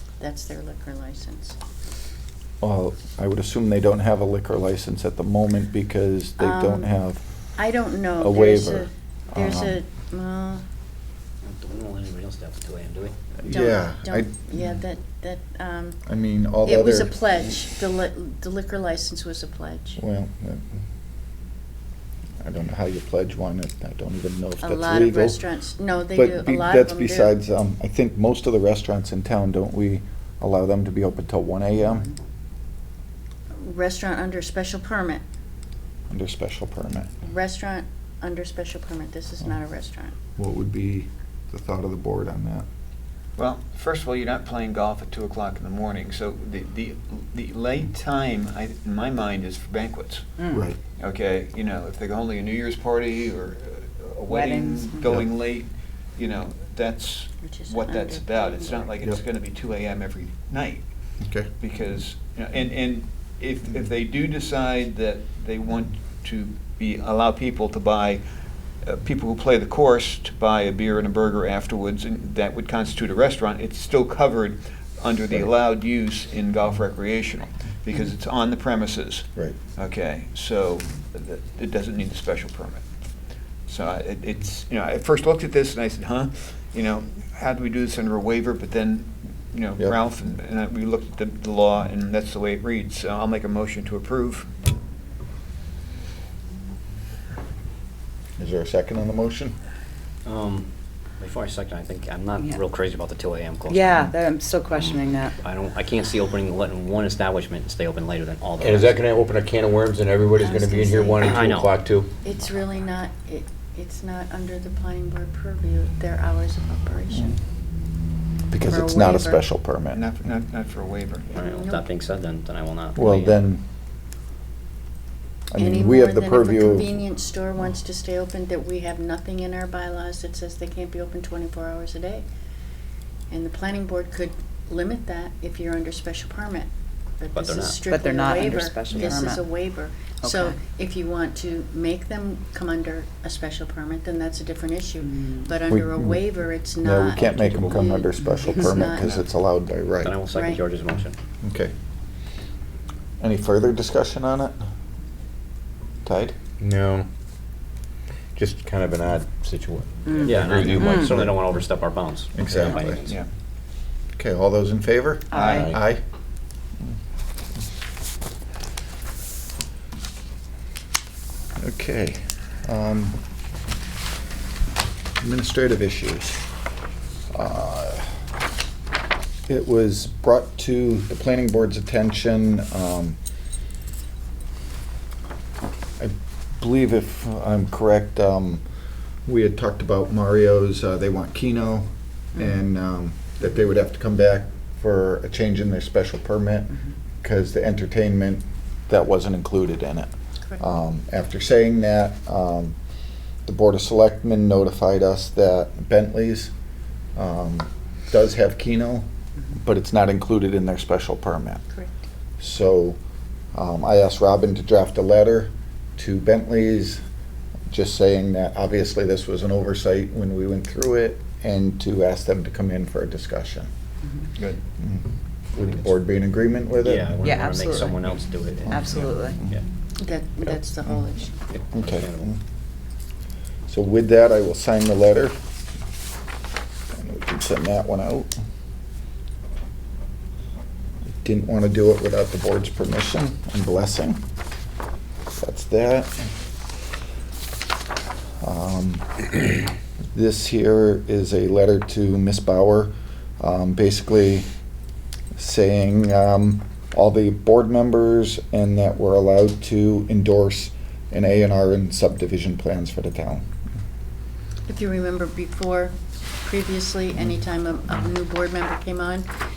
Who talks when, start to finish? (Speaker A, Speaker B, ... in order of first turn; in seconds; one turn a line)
Speaker A: 0.2-1.6
Speaker B: 2.6-7.2
Speaker A: 6.4-6.9
Speaker A: 7.6-10.6
Speaker B: 8.2-9.8
Speaker C: 11.4-13.2
Speaker B: 13.4-14.3
Speaker A: 13.4-16.0
Speaker B: 16.1-17.1
Speaker A: 16.6-20.0
Speaker B: 20.0-20.7
Speaker B: 22.4-25.4
Speaker A: 24.6-27.4
Speaker B: 26.1-32.1
Speaker A: 33.5-35.2
Speaker B: 36.1-37.1
Speaker A: 37.2-40.1
Speaker B: 40.4-42.6
Speaker D: 43.4-50.4
Speaker B: 50.5-50.8
Speaker D: 51.0-60.9
Speaker E: 54.3-55.2
Speaker A: 57.4-58.9
Speaker B: 61.2-61.5
Speaker D: 61.6-68.2
Speaker D: 68.8-79.2
Speaker D: 79.8-82.8
Speaker D: 83.7-94.5
Speaker B: 98.4-99.5
Speaker C: 100.2-100.7
Speaker C: 101.2-104.1
Speaker E: 103.7-105.3
Speaker C: 104.7-109.0
Speaker F: 108.6-112.1
Speaker A: 110.3-111.4
Speaker C: 111.2-111.7
Speaker A: 112.2-117.4
Speaker B: 118.5-120.0
Speaker A: 118.7-119.4
Speaker D: 119.9-121.3
Speaker A: 121.3-121.8
Speaker C: 121.3-123.4
Speaker B: 122.9-123.6
Speaker B: 125.5-127.0
Speaker A: 125.6-132.2
Speaker A: 133.3-149.1
Speaker C: 137.3-137.8
Speaker E: 137.8-139.5
Speaker E: 140.2-140.6
Speaker B: 145.7-150.2
Speaker C: 147.3-147.6
Speaker D: 148.9-149.2
Speaker C: 150.0-151.2
Speaker A: 150.3-150.6
Speaker B: 151.4-151.7
Speaker B: 153.2-154.6
Speaker B: 156.0-156.3
Speaker F: 156.6-157.1
Speaker F: 158.3-161.3
Speaker E: 160.1-161.3
Speaker C: 160.2-163.2
Speaker B: 162.3-163.0
Speaker B: 164.2-166.0
Speaker E: 165.3-165.6
Speaker D: 165.3-165.7
Speaker B: 171.6-173.2
Speaker B: 175.2-176.4
Speaker B: 177.3-178.1
Speaker B: 179.5-183.2
Speaker B: 186.0-188.6
Speaker B: 189.2-202.8
Speaker B: 203.4-206.5
Speaker B: 207.2-209.1
Speaker B: 209.6-211.6
Speaker B: 212.4-213.0
Speaker B: 213.5-217.0
Speaker B: 217.7-223.7
Speaker B: 224.8-227.1
Speaker C: 226.8-229.6
Speaker E: 227.2-228.0
Speaker E: 228.7-229.4
Speaker B: 228.7-229.5
Speaker A: 230.0-231.5
Speaker C: 231.5-232.3
Speaker B: 231.8-232.4
Speaker B: 233.7-235.4
Speaker B: 236.9-238.3
Speaker B: 241.2-244.2
Speaker B: 245.4-246.2
Speaker B: 248.4-249.3
Speaker B: 250.1-254.5
Speaker B: 255.4-263.4
Speaker A: 264.7-269.2